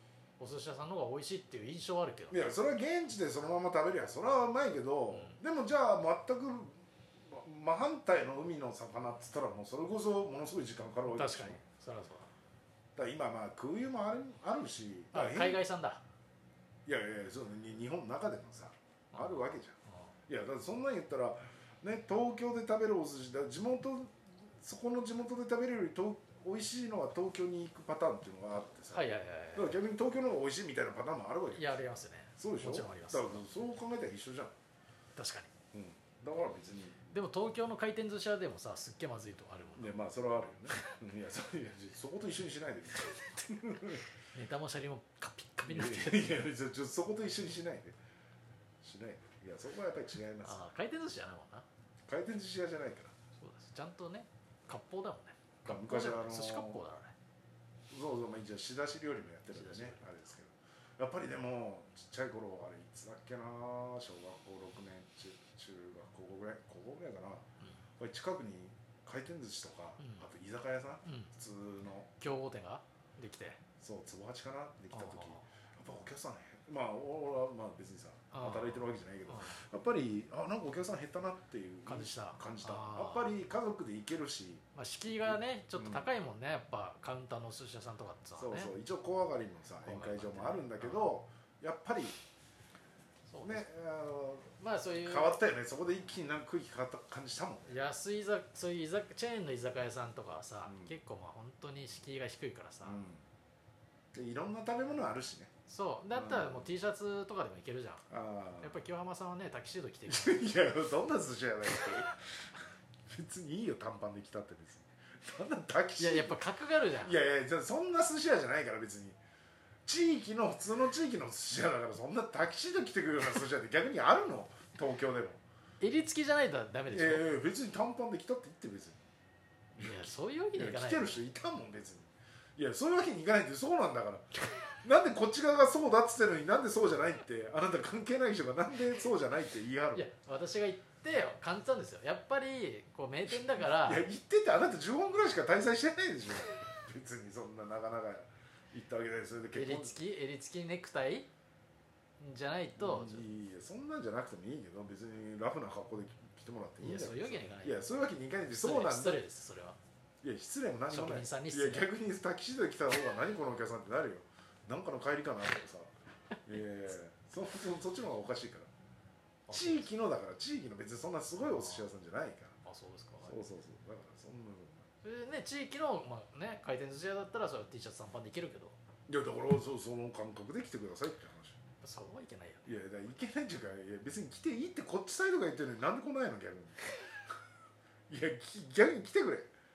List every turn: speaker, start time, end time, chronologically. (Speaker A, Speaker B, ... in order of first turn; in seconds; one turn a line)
Speaker A: 0.4-2.5
Speaker B: 2.3-11.6
Speaker A: 5.1-5.4
Speaker A: 11.2-12.3
Speaker B: 13.0-15.6
Speaker A: 15.1-16.0
Speaker B: 16.9-19.8
Speaker A: 19.1-20.1
Speaker B: 20.3-31.8
Speaker A: 28.9-29.8
Speaker A: 31.5-33.5
Speaker B: 32.4-34.5
Speaker A: 35.2-35.5
Speaker B: 35.7-37.1
Speaker A: 37.1-39.9
Speaker B: 39.8-44.0
Speaker A: 43.9-46.5
Speaker B: 45.7-48.0
Speaker B: 48.8-50.6
Speaker A: 50.4-51.7
Speaker B: 52.1-53.1
Speaker A: 53.4-57.1
Speaker B: 55.6-56.8
Speaker B: 57.9-67.5
Speaker A: 59.5-60.1
Speaker B: 68.0-72.1
Speaker A: 70.0-70.2
Speaker A: 72.2-73.6
Speaker B: 73.8-86.1
Speaker A: 74.9-75.5
Speaker A: 78.3-79.6
Speaker A: 81.9-83.3
Speaker A: 84.8-88.7
Speaker B: 88.4-92.2
Speaker A: 89.8-91.1
Speaker A: 93.3-93.7
Speaker B: 93.4-97.8
Speaker A: 94.6-95.4
Speaker A: 97.7-103.0
Speaker B: 100.7-101.0
Speaker B: 102.8-103.2
Speaker B: 104.1-105.5
Speaker A: 105.7-108.0
Speaker B: 106.1-106.7
Speaker B: 108.1-108.8
Speaker A: 108.6-110.5
Speaker B: 110.1-116.4
Speaker A: 116.0-117.2
Speaker B: 117.0-119.2
Speaker B: 119.9-125.4
Speaker A: 125.8-127.3
Speaker B: 126.9-129.0
Speaker B: 129.8-140.1
Speaker A: 129.8-131.2
Speaker A: 139.9-144.1
Speaker B: 143.3-150.0
Speaker A: 149.5-151.3
Speaker A: 152.2-153.3
Speaker B: 152.8-159.2
Speaker A: 156.8-157.8
Speaker A: 158.5-159.8
Speaker B: 160.2-165.9
Speaker A: 160.9-161.9
Speaker B: 166.4-168.7
Speaker A: 169.5-169.9
Speaker B: 169.5-172.6
Speaker A: 171.4-171.9
Speaker A: 172.7-173.4
Speaker B: 173.2-174.9
Speaker A: 175.0-178.8
Speaker B: 179.1-181.6
Speaker A: 181.8-182.8
Speaker B: 182.7-186.9
Speaker B: 188.1-189.5